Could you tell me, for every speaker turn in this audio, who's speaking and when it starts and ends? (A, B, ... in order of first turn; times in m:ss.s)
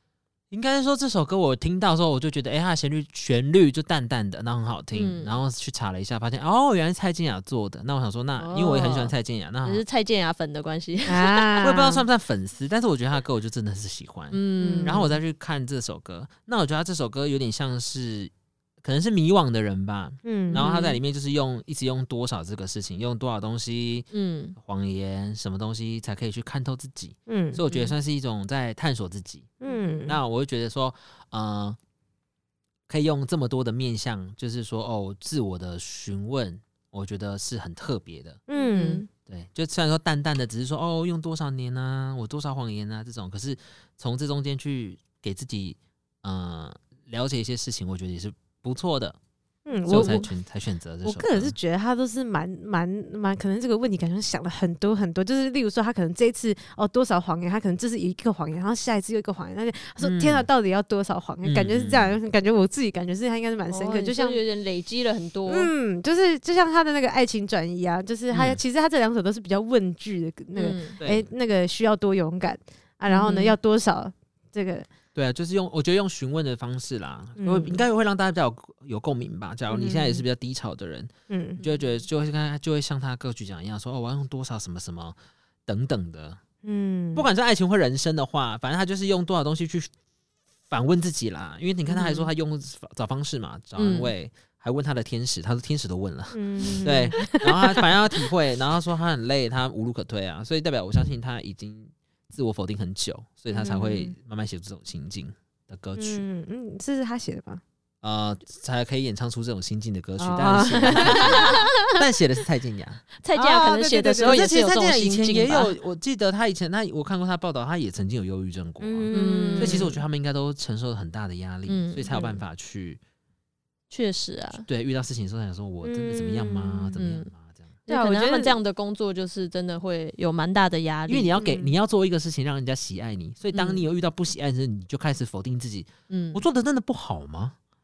0:00.5-0:09.8 A
0:04.9-0:05.4 B
0:08.4-0:09.1 B
0:09.6-0:11.6 B
0:11.1-0:12.0 C
0:11.6-0:29.5 A
0:14.3-0:15.1 B
0:14.6-0:15.1 C
0:20.2-0:20.7 C
0:20.5-0:21.0 B
0:24.1-0:24.6 B
0:27.3-0:27.6 C
0:27.7-0:27.9 B
0:29.6-0:30.2 C
0:30.1-0:31.8 A
0:32.9-0:38.4 A
0:38.5-0:39.0 C
0:38.5-0:39.0 B
0:39.3-0:49.2 A
0:49.6-0:50.3 C
0:49.7-0:50.3 B
0:49.9-0:51.6 A
0:51.0-1:04.4 C
1:00.0-1:00.5 A
1:01.4-1:02.2 A
1:03.7-1:05.7 B
1:05.5-1:14.9 C
1:08.3-1:08.6 A
1:10.5-1:11.0 B
1:11.0-1:11.3 A
1:13.1-1:13.6 B
1:15.1-1:25.2 A
1:17.4-1:17.8 C
1:19.7-1:20.2 C
1:21.3-1:21.6 C
1:25.7-1:26.4 A
1:26.6-1:27.3 C
1:27.1-1:29.9 A
1:30.7-1:46.2 A
1:33.8-1:34.1 B
1:36.3-1:37.8 C
1:43.5-1:44.1 C
1:46.0-1:47.6 C
1:48.0-1:53.0 A
1:50.2-1:51.9 C
1:50.9-1:51.6 B
1:53.2-1:55.7 B
1:53.3-1:54.4 C
1:54.2-2:03.0 A
1:58.8-2:00.0 C
1:59.1-1:59.9 B
2:01.7-2:02.4 B
2:03.9-2:04.6 B
2:04.6-2:07.6 A
2:05.8-2:06.9 C
2:07.0-2:07.3 B
2:07.9-2:11.4 B
2:07.9-2:08.6 C
2:11.1-2:17.6 A
2:11.4-2:11.7 C
2:13.5-2:13.8 B
2:16.1-2:16.4 B